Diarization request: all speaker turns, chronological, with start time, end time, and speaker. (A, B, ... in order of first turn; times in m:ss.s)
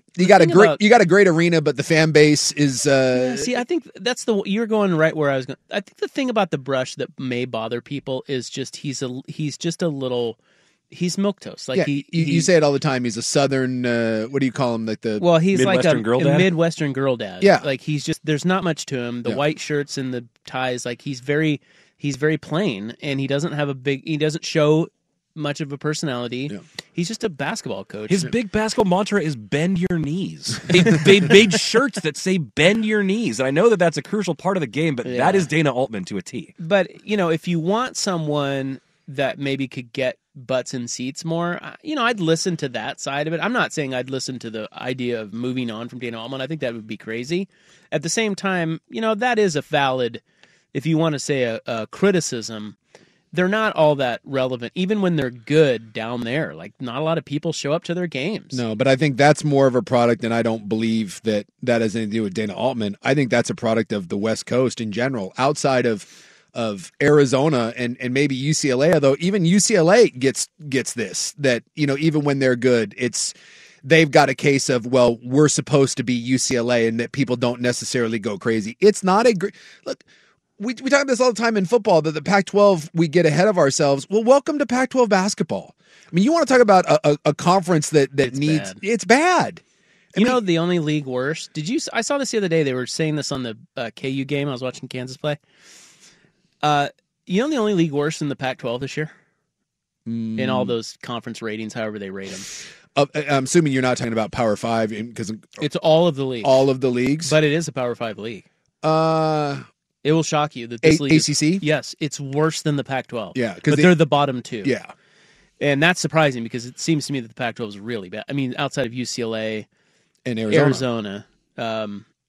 0:00.2-0:03.5 A
0:00.2-0:00.8 B
0:03.1-0:10.4 B
0:10.9-0:12.5 B
0:11.7-0:15.3 A
0:15.2-0:28.3 B
0:15.5-0:16.5 C
0:17.4-0:17.7 A
0:28.1-0:36.5 C
0:35.0-0:35.5 B
0:36.6-0:50.2 B
0:50.7-0:52.8 B
0:53.3-0:58.6 B
0:58.5-1:20.0 A
1:20.6-1:29.6 A
1:28.2-1:28.8 B
1:30.1-1:30.4 A
1:30.2-1:35.4 B
1:36.6-1:39.1 B
1:40.1-1:40.8 A
1:40.4-1:42.5 B
1:43.0-1:45.7 A
1:45.6-1:46.7 B
1:46.4-1:47.4 A
1:47.2-1:48.4 B
1:48.8-1:49.6 A
1:50.0-1:54.7 B
1:50.8-1:51.6 A
1:53.4-1:54.0 A
1:54.6-1:54.9 A
1:55.6-1:59.7 B
2:00.2-2:00.8 A
2:00.5-2:02.1 B